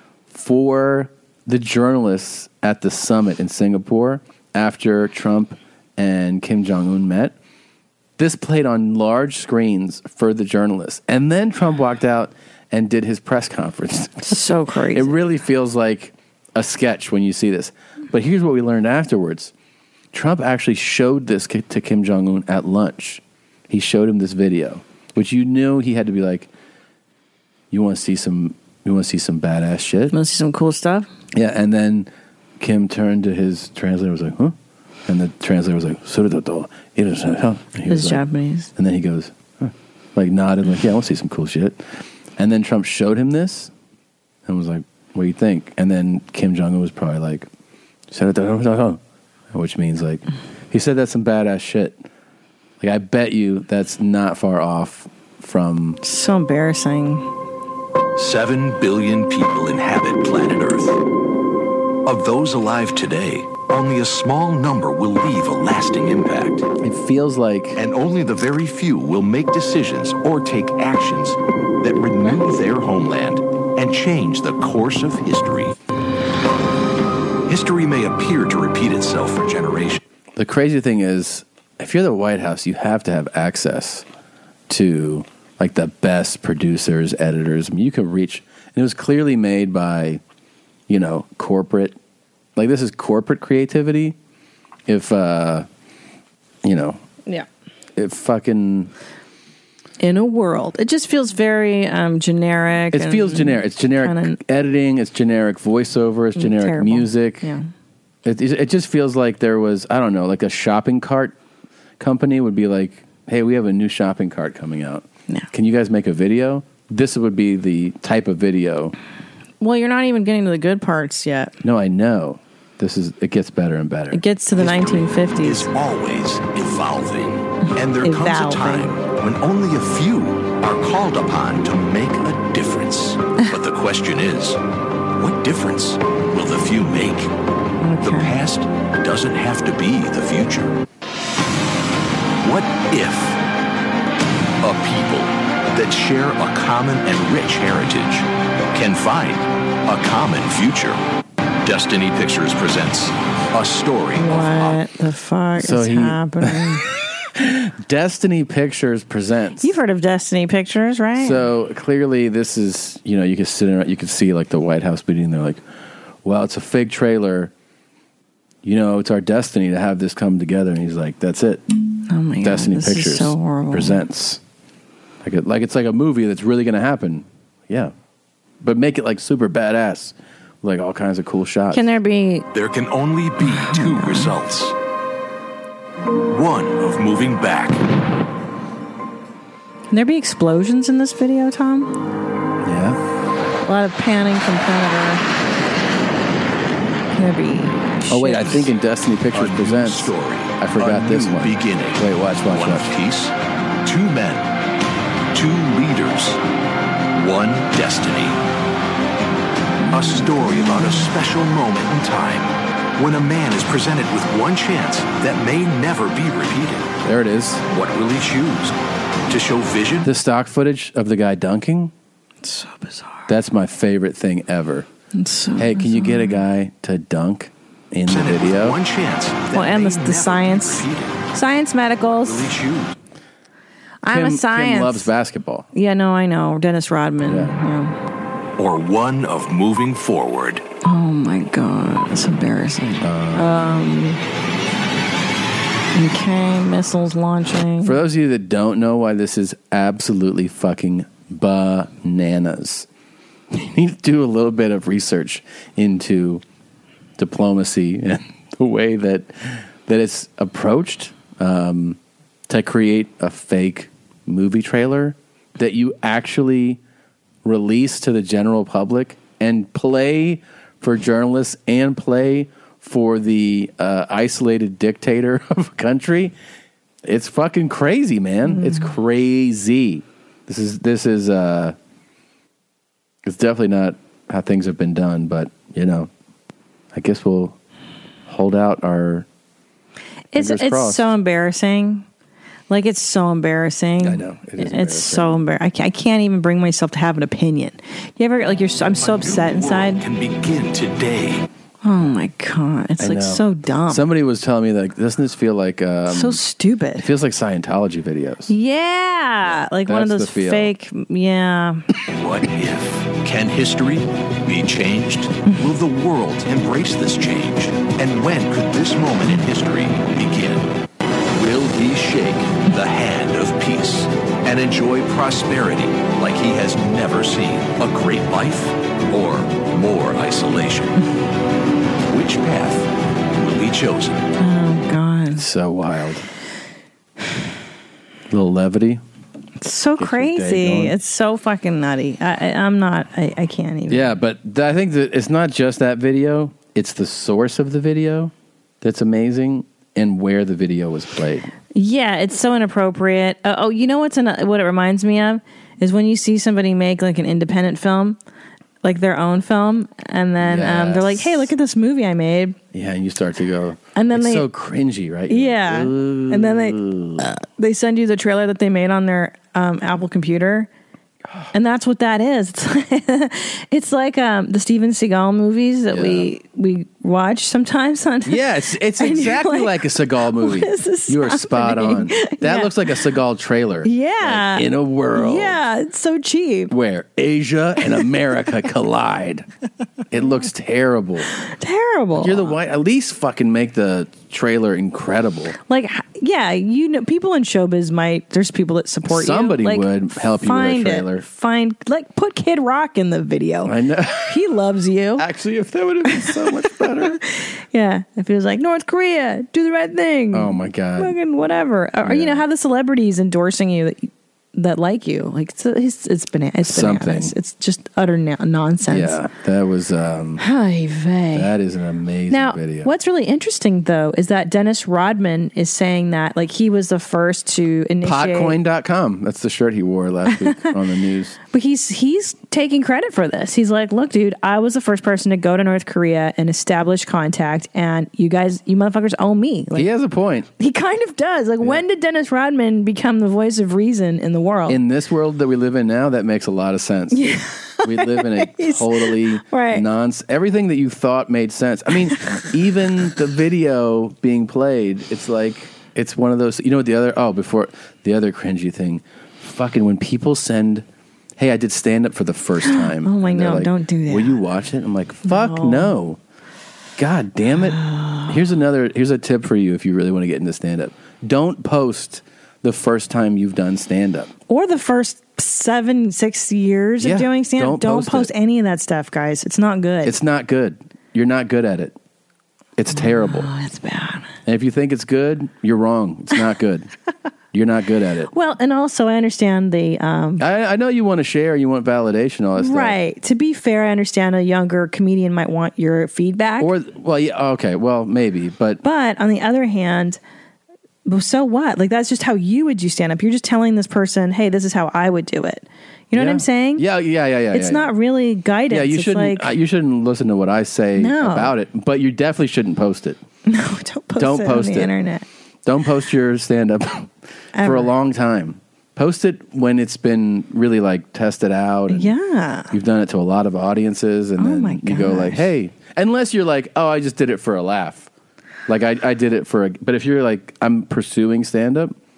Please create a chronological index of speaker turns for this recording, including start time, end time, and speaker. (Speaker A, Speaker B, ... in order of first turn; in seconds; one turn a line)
Speaker A: 0.3-7.3
Speaker A: 8.2-19.5
Speaker B: 14.2-15.1
Speaker A: 20.1-26.5
Speaker A: 27.7-30.1
Speaker B: 30.1-31.1
Speaker A: 31.3-32.1
Speaker A: 32.6-34.5
Speaker A: 35.1-38.2
Speaker B: 37.9-38.7
Speaker A: 38.7-41.8
Speaker A: 42.4-43.7
Speaker A: 44.5-47.5
Speaker A: 48.1-49.0
Speaker A: 49.5-52.0
Speaker A: 52.8-56.0
Speaker B: 56.0-57.3
Speaker C: 58.1-61.0
Speaker C: 62.0-66.7
Speaker A: 66.8-67.8
Speaker C: 67.8-75.7
Speaker C: 77.5-80.0
Speaker A: 80.4-84.0
Speaker A: 84.7-90.2
Speaker A: 90.9-92.0
Speaker A: 92.5-94.2
Speaker A: 94.9-95.7
Speaker A: 96.6-97.0
Speaker A: 98.0-98.9
Speaker B: 100.0-104.4
Speaker A: 102.9-107.5
Speaker B: 106.4-107.6
Speaker A: 108.2-111.4
Speaker A: 112.0-118.9
Speaker B: 119.6-121.5
Speaker A: 121.6-124.2
Speaker B: 124.1-125.7
Speaker C: 124.5-134.6
Speaker B: 127.8-129.0
Speaker C: 135.1-137.3
Speaker B: 137.8-138.3
Speaker C: 138.0-140.7
Speaker C: 142.4-143.4
Speaker C: 144.6-151.0
Speaker C: 151.6-154.8
Speaker B: 154.1-156.8
Speaker A: 155.6-156.8
Speaker A: 157.3-159.7
Speaker B: 159.6-161.5
Speaker A: 161.2-165.6
Speaker A: 166.2-167.5
Speaker A: 168.6-171.6
Speaker B: 172.1-174.0
Speaker A: 172.4-174.4
Speaker A: 175.2-177.9
Speaker A: 178.6-181.9
Speaker B: 181.7-182.5
Speaker C: 182.5-184.7
Speaker B: 183.4-184.3
Speaker C: 186.3-187.8
Speaker B: 189.9-191.9
Speaker A: 192.6-193.0
Speaker B: 193.6-195.2
Speaker B: 197.1-198.7
Speaker A: 198.1-202.9
Speaker C: 199.3-203.3
Speaker C: 203.8-204.5
Speaker C: 205.3-206.4
Speaker C: 207.1-208.4
Speaker C: 209.9-216.9
Speaker A: 217.0-217.6
Speaker C: 217.7-218.7
Speaker C: 219.3-220.1
Speaker A: 220.0-221.9
Speaker B: 222.4-223.3
Speaker A: 223.3-224.9
Speaker B: 225.1-226.4
Speaker A: 225.6-228.8
Speaker C: 228.1-231.2
Speaker B: 229.5-232.5
Speaker C: 232.2-232.9
Speaker B: 234.0-235.1
Speaker A: 234.1-235.7
Speaker B: 235.7-237.9
Speaker A: 237.2-237.5
Speaker C: 238.6-240.6
Speaker B: 240.8-244.2
Speaker A: 243.0-243.5
Speaker B: 245.9-248.0
Speaker A: 247.8-252.9
Speaker A: 253.5-256.4
Speaker A: 257.2-262.0
Speaker A: 262.5-266.8
Speaker A: 267.4-276.3
Speaker A: 277.0-281.7
Speaker B: 278.5-278.9
Speaker A: 283.2-286.1
Speaker A: 286.9-287.6
Speaker A: 288.3-289.2
Speaker B: 290.3-292.1
Speaker A: 290.4-291.1
Speaker B: 292.7-300.0
Speaker A: 294.0-295.4
Speaker C: 299.0-301.4
Speaker B: 301.8-304.0
Speaker A: 303.0-306.4
Speaker B: 306.1-307.1
Speaker A: 307.0-308.5
Speaker B: 308.5-311.8
Speaker A: 309.4-310.7
Speaker C: 312.1-320.7
Speaker C: 321.3-330.9
Speaker C: 332.1-334.3
Speaker B: 334.4-335.4
Speaker A: 335.3-336.2
Speaker A: 338.3-339.0
Speaker B: 339.6-344.1
Speaker A: 340.0-340.9
Speaker A: 343.9-351.5
Speaker B: 351.7-358.2
Speaker B: 358.8-362.6
Speaker A: 360.4-361.5
Speaker A: 362.7-367.3
Speaker B: 363.9-364.5
Speaker B: 365.3-370.7
Speaker B: 371.5-378.4
Speaker A: 375.9-376.3
Speaker A: 378.2-385.6
Speaker B: 379.0-379.8
Speaker B: 380.3-382.9
Speaker B: 383.8-386.7
Speaker A: 386.7-389.4
Speaker A: 390.1-391.3
Speaker B: 391.5-392.6
Speaker A: 392.1-395.6
Speaker B: 395.7-403.7
Speaker A: 399.1-401.2
Speaker A: 403.6-404.3
Speaker B: 404.3-405.2
Speaker A: 405.2-407.2
Speaker B: 407.0-419.2
Speaker A: 410.3-411.1
Speaker A: 412.0-412.4
Speaker A: 416.6-417.3
Speaker A: 418.9-420.4
Speaker B: 420.4-421.5
Speaker A: 421.3-422.9
Speaker B: 422.3-428.6
Speaker A: 428.0-431.4
Speaker B: 431.5-439.9
Speaker A: 439.7-440.5
Speaker B: 440.6-444.8
Speaker A: 444.7-460.8
Speaker B: 447.1-449.8
Speaker A: 461.4-466.2
Speaker B: 462.6-464.4
Speaker B: 465.2-465.9
Speaker A: 467.0-474.3
Speaker B: 467.5-468.4
Speaker B: 474.5-480.1
Speaker A: 477.0-478.3
Speaker A: 480.0-481.9
Speaker A: 482.8-483.5
Speaker B: 482.9-484.3
Speaker A: 484.4-486.9
Speaker A: 487.5-488.3
Speaker B: 488.3-490.4
Speaker A: 490.4-493.0
Speaker B: 492.6-496.7
Speaker A: 496.6-498.8
Speaker B: 498.8-500.2
Speaker B: 501.0-506.8
Speaker A: 506.1-507.9
Speaker B: 507.5-509.5
Speaker A: 508.7-513.2
Speaker B: 510.9-511.5
Speaker B: 513.5-515.2
Speaker A: 514.2-514.9
Speaker A: 515.6-522.1
Speaker B: 517.5-517.9
Speaker B: 521.9-522.7
Speaker A: 522.7-528.1
Speaker B: 524.4-525.5
Speaker A: 528.7-531.9